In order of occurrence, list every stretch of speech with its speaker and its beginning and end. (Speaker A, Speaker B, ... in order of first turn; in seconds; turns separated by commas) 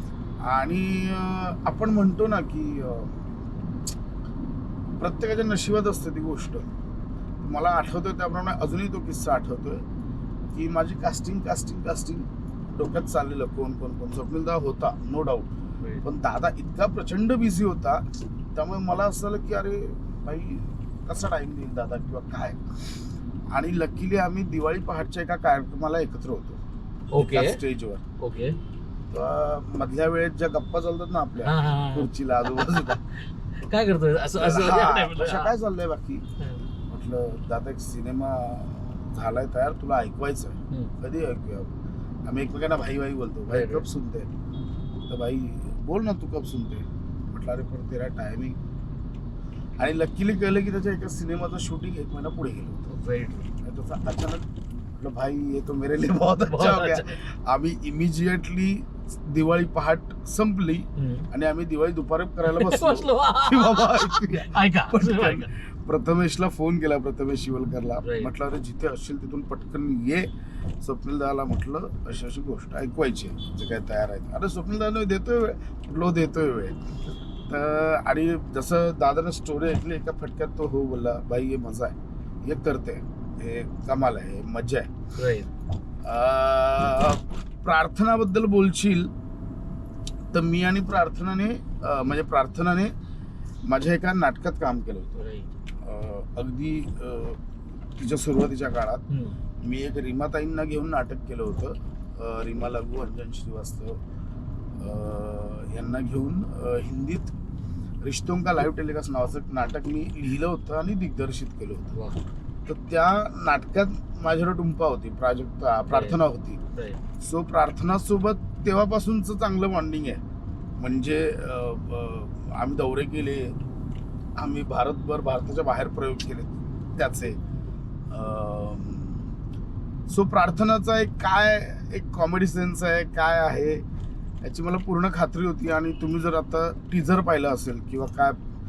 Speaker A: 0.4-3.1, Speaker A: 5.0-6.7, Speaker A: 7.4-9.8, Speaker A: 10.5-15.5, Speaker A: 16.0-26.6, Speaker B: 27.1-27.6, Speaker A: 27.1-28.0, Speaker B: 28.2-28.6, Speaker A: 29.1-33.0, Speaker B: 31.4-35.5, Speaker A: 34.4-36.2, Speaker A: 36.9-41.7, Speaker A: 42.2-44.3, Speaker B: 43.5-43.8, Speaker A: 45.1-48.6, Speaker A: 49.8-52.9, Speaker B: 52.9-53.5, Speaker A: 53.6-70.3, Speaker B: 56.4-57.2, Speaker B: 61.0-61.3, Speaker B: 62.4-65.5, Speaker B: 68.0-68.3, Speaker A: 70.8-76.8, Speaker A: 77.5-84.9, Speaker B: 85.2-85.5, Speaker A: 86.0-89.1, Speaker A: 90.3-92.9, Speaker A: 93.6-95.2, Speaker B: 95.2-95.5, Speaker A: 95.8-97.4, Speaker A: 98.0-99.0, Speaker B: 99.1-99.3, Speaker A: 99.6-104.0, Speaker A: 104.8-107.3, Speaker A: 108.0-111.9, Speaker B: 111.9-112.2, Speaker A: 112.7-116.6, Speaker B: 115.9-116.2, Speaker A: 117.2-120.2, Speaker A: 120.8-123.6, Speaker A: 124.3-127.4, Speaker A: 128.1-129.2, Speaker A: 130.1-133.8, Speaker A: 134.4-138.4